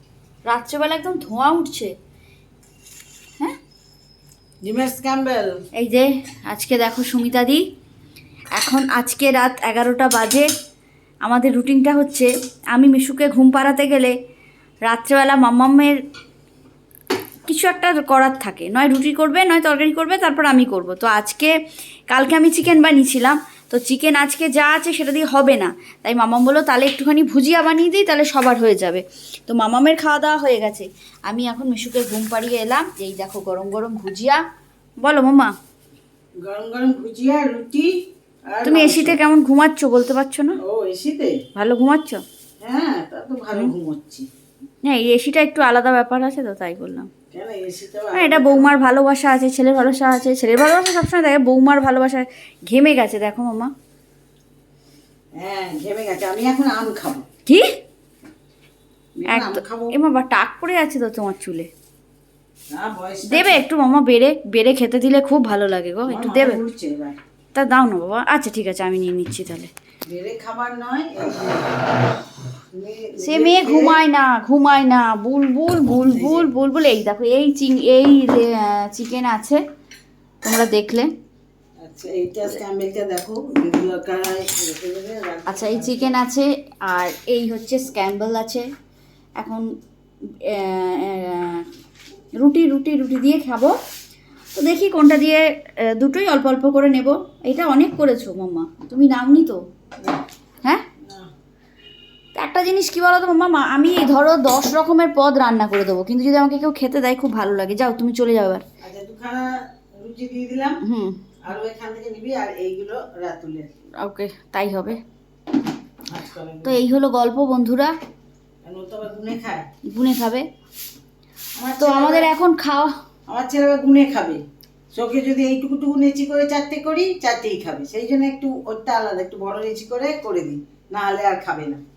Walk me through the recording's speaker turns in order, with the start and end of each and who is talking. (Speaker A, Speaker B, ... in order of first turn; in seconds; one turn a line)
Speaker A: 0.5-1.9
Speaker B: 4.6-5.6
Speaker A: 5.8-7.6
Speaker A: 8.5-10.5
Speaker A: 11.2-14.1
Speaker A: 14.9-16.0
Speaker A: 17.5-21.5
Speaker A: 22.1-34.4
Speaker A: 35.0-35.5
Speaker B: 36.4-38.0
Speaker B: 38.5-39.2
Speaker A: 38.6-40.6
Speaker B: 40.6-41.4
Speaker A: 41.5-42.2
Speaker B: 42.6-44.3
Speaker A: 44.8-47.1
Speaker B: 47.3-48.7
Speaker A: 48.1-53.7
Speaker B: 55.4-57.2
Speaker A: 57.5-57.7
Speaker B: 59.1-60.0
Speaker A: 59.3-61.7
Speaker B: 62.7-63.6
Speaker A: 63.3-66.6
Speaker B: 66.0-67.2
Speaker A: 67.5-69.7
Speaker B: 70.1-71.8
Speaker B: 72.7-74.0
Speaker A: 73.2-79.6
Speaker B: 76.1-76.5
Speaker A: 80.4-81.1
Speaker B: 81.8-86.2
Speaker A: 85.5-88.7
Speaker A: 89.4-89.7
Speaker A: 90.4-91.7
Speaker A: 92.4-93.8
Speaker A: 94.5-99.6
Speaker B: 101.0-101.3
Speaker A: 102.3-108.6
Speaker B: 108.8-110.8
Speaker A: 110.8-111.2
Speaker B: 111.4-113.7
Speaker A: 114.0-115.0
Speaker B: 116.1-116.8
Speaker A: 116.6-117.9
Speaker B: 118.6-119.7
Speaker A: 119.9-120.5
Speaker B: 121.6-122.3
Speaker A: 121.8-122.9
Speaker B: 123.3-124.4
Speaker B: 124.9-131.8